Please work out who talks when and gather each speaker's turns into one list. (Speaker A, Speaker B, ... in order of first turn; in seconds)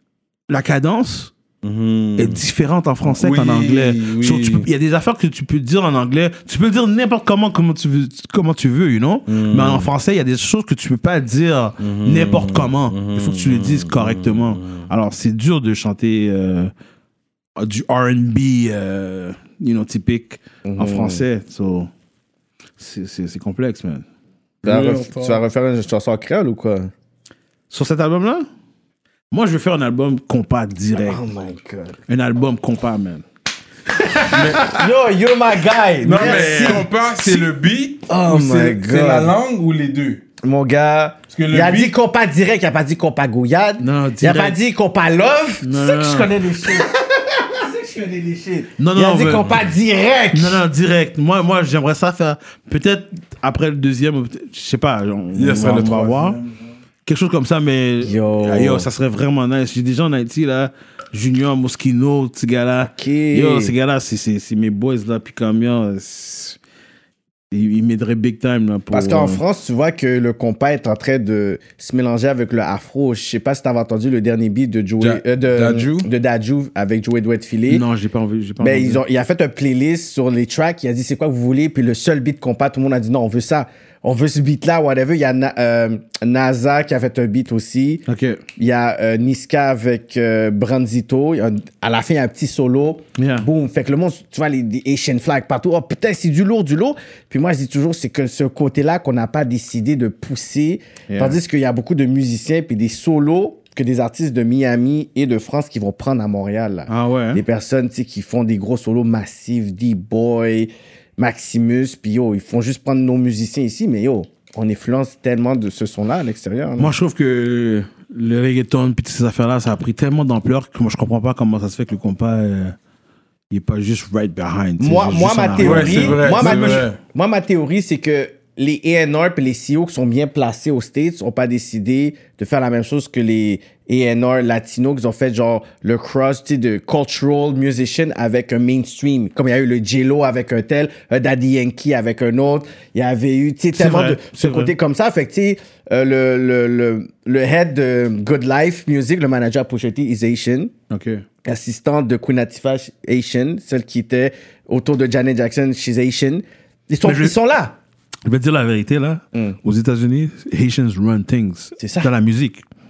Speaker A: 0.5-1.3, 2.2-16.7, 17.6-21.9, 22.8-24.1, 27.7-28.5, 29.3-31.2, 32.1-33.2, 34.0-34.9, 36.1-36.9, 43.8-44.6, 45.6-46.4, 48.8-49.6, 50.3-56.4, 57.1-66.6, 67.5-69.4, 77.7-79.0, 88.1-88.4, 93.2-93.5, 101.1-101.4, 106.9-107.4, 116.8-122.8, 123.5-126.9, 143.7-144.7, 150.9-151.2, 157.0-157.3, 158.3-162.7
Speaker B: 1.6-2.4, 3.1-4.7, 9.3-9.9, 11.8-14.9, 24.6-25.4, 34.3-34.8, 36.0-40.2, 41.3-41.9, 55.4-56.5, 75.0-76.1, 125.6-127.0
Speaker C: 20.7-21.2, 24.6-26.9, 31.0-32.0, 34.4-36.9, 38.1-39.3, 40.4-50.6, 58.0-58.9, 62.8-63.7, 68.9-77.8, 78.6-88.0, 88.6-116.9, 124.8-150.7, 151.4-157.8, 161.8-162.1